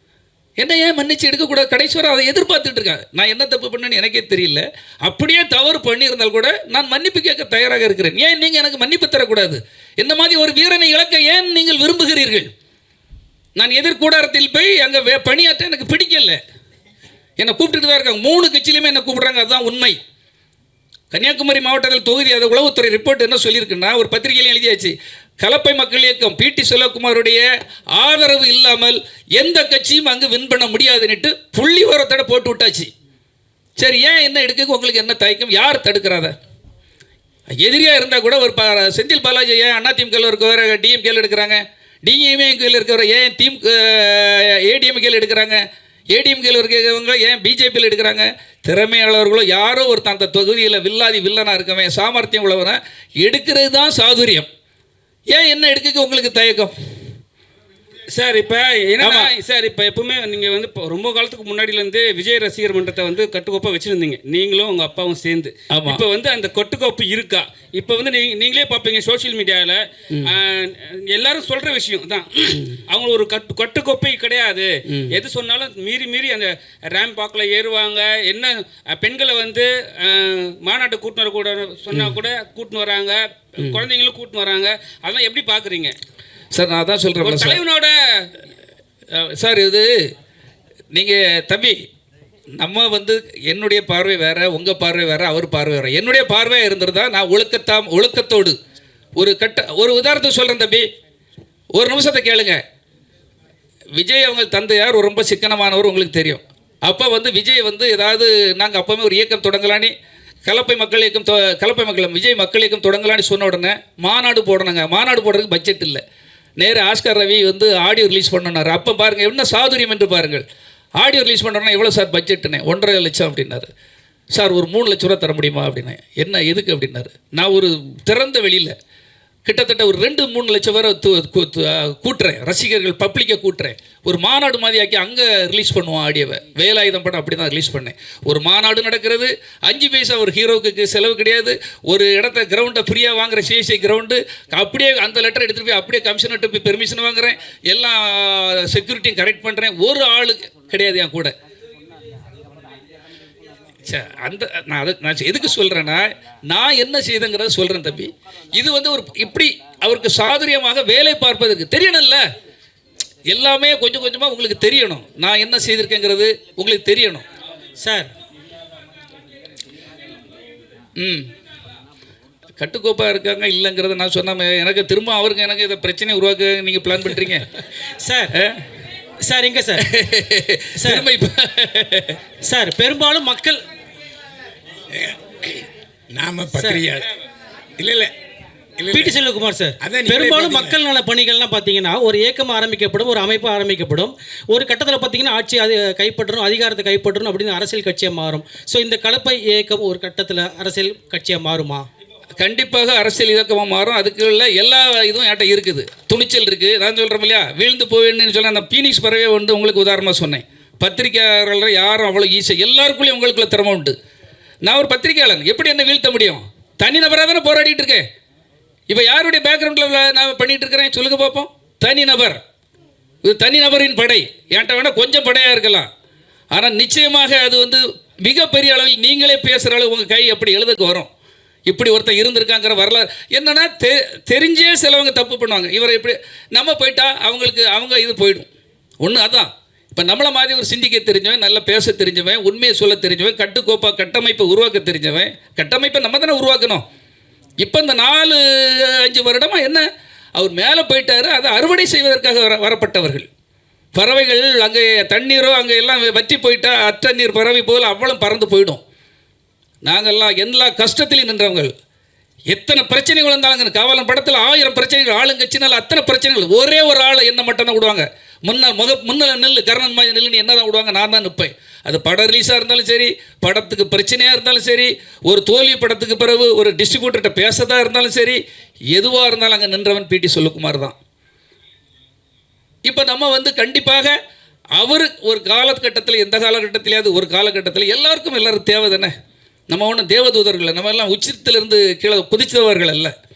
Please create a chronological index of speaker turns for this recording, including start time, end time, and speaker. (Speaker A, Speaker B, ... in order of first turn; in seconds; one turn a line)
Speaker A: 0.6-12.5
Speaker A: 13.6-16.4
Speaker A: 17.4-20.0
Speaker A: 21.1-27.4
Speaker A: 28.0-32.9
Speaker A: 33.8-36.3
Speaker A: 37.5-54.5
Speaker A: 55.3-56.7
Speaker B: 58.1-69.8
Speaker A: 59.0-59.3
Speaker A: 65.7-66.0
Speaker B: 70.3-85.9
Speaker A: 86.5-87.6
Speaker B: 87.2-88.0
Speaker A: 89.1-89.9
Speaker A: 90.9-91.8
Speaker A: 92.6-98.6
Speaker A: 99.2-100.9
Speaker A: 101.8-102.6
Speaker A: 104.0-109.9
Speaker A: 110.5-116.0
Speaker A: 116.6-120.4
Speaker A: 121.0-123.7
Speaker A: 124.3-128.8
Speaker A: 129.5-151.3
Speaker A: 153.9-162.2
Speaker A: 163.3-167.2
Speaker C: 167.8-168.1
Speaker A: 171.0-171.3
Speaker A: 172.6-177.5
Speaker C: 178.0-178.3
Speaker C: 179.2-179.9
Speaker A: 179.9-182.2
Speaker C: 180.8-181.1
Speaker C: 182.4-183.6
Speaker D: 184.9-187.1
Speaker C: 186.5-186.9
Speaker D: 187.8-188.1
Speaker D: 188.8-189.2
Speaker C: 188.9-201.9
Speaker D: 189.8-190.8
Speaker A: 202.4-213.9
Speaker A: 214.7-218.0
Speaker A: 218.9-222.4
Speaker A: 223.2-225.9
Speaker A: 226.5-231.1
Speaker A: 231.7-238.5
Speaker A: 239.0-246.8
Speaker A: 247.6-253.3
Speaker A: 253.9-258.8
Speaker A: 259.9-261.7
Speaker A: 262.5-278.4
Speaker A: 278.9-281.0
Speaker A: 282.9-284.1
Speaker A: 284.8-289.1
Speaker A: 289.7-293.1